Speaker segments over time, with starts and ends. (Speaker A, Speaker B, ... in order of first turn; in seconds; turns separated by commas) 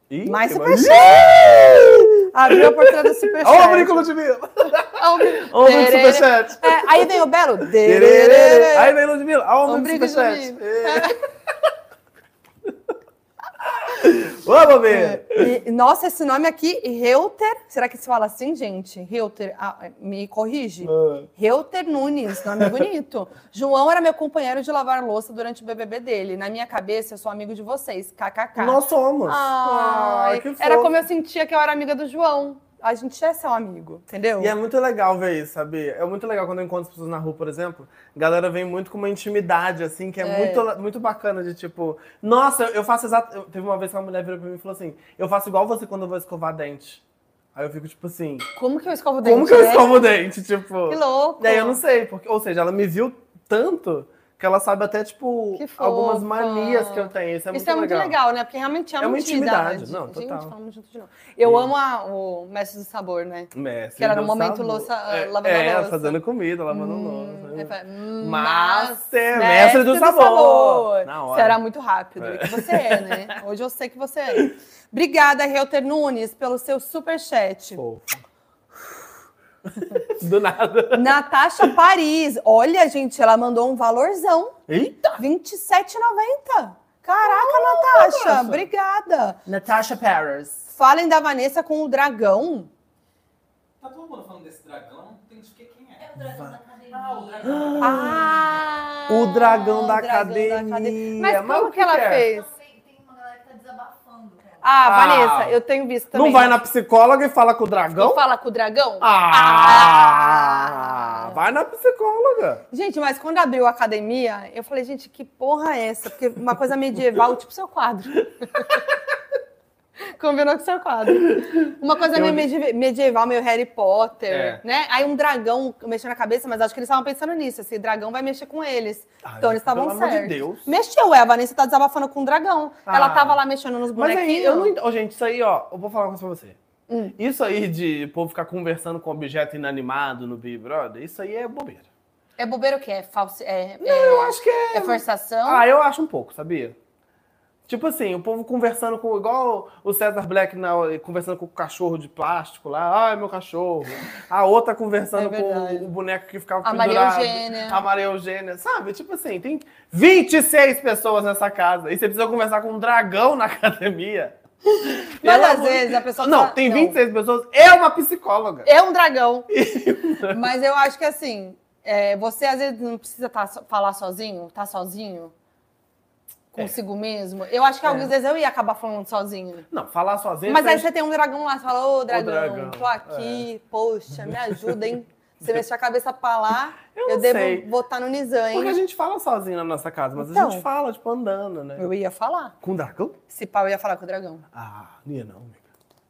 Speaker A: 0.1-11.1, Speaker B: 0.2-4.0, Speaker B: 5.0-8.9, Speaker B: 9.7-11.2, Speaker A: 13.6-15.5, Speaker B: 14.8-34.5, Speaker A: 20.8-21.3, Speaker A: 28.6-30.9, Speaker A: 34.4-47.0, Speaker B: 40.2-40.6, Speaker A: 47.5-48.5, Speaker B: 48.5-50.0, Speaker A: 49.2-58.1, Speaker B: 50.9-51.8, Speaker B: 55.5-66.2, Speaker A: 59.0-60.5, Speaker A: 61.4-61.7, Speaker A: 63.5-71.6, Speaker B: 66.7-77.8, Speaker A: 72.2-73.3, Speaker A: 77.8-78.2, Speaker A: 79.7-81.7, Speaker B: 80.9-89.4, Speaker A: 84.7-85.2, Speaker A: 87.2-88.7, Speaker A: 89.5-90.6, Speaker B: 90.7-92.7, Speaker C: 93.8-96.2, Speaker D: 96.0-98.0, Speaker A: 96.2-96.6, Speaker C: 96.9-98.5, Speaker A: 97.4-98.4, Speaker B: 97.8-102.5, Speaker A: 99.1-102.3, Speaker D: 102.2-104.7, Speaker B: 104.6-106.6, Speaker A: 104.8-105.6, Speaker A: 106.1-108.2, Speaker B: 108.0-111.4, Speaker A: 109.0-112.6, Speaker B: 112.7-118.8, Speaker B: 120.0-134.7, Speaker A: 122.1-122.5, Speaker A: 124.3-124.6, Speaker A: 129.2-130.7, Speaker A: 132.8-133.4, Speaker A: 133.9-136.6, Speaker B: 136.9-137.2, Speaker A: 137.2-141.8, Speaker B: 142.4-145.6, Speaker A: 143.8-146.8, Speaker A: 147.7-168.7, Speaker B: 155.1-155.9, Speaker B: 156.6-157.8, Speaker B: 165.2-167.0, Speaker B: 168.6-169.5, Speaker A: 169.5-170.4, Speaker B: 170.3-175.3, Speaker B: 176.5-179.7, Speaker A: 177.8-178.1, Speaker A: 179.7-180.9, Speaker B: 180.5-188.8, Speaker A: 182.1-183.5, Speaker A: 184.2-184.8, Speaker A: 186.9-187.7, Speaker A: 188.5-191.9, Speaker B: 190.2-190.6, Speaker B: 191.8-192.5, Speaker A: 192.6-193.2, Speaker B: 193.3-194.4, Speaker A: 194.5-195.6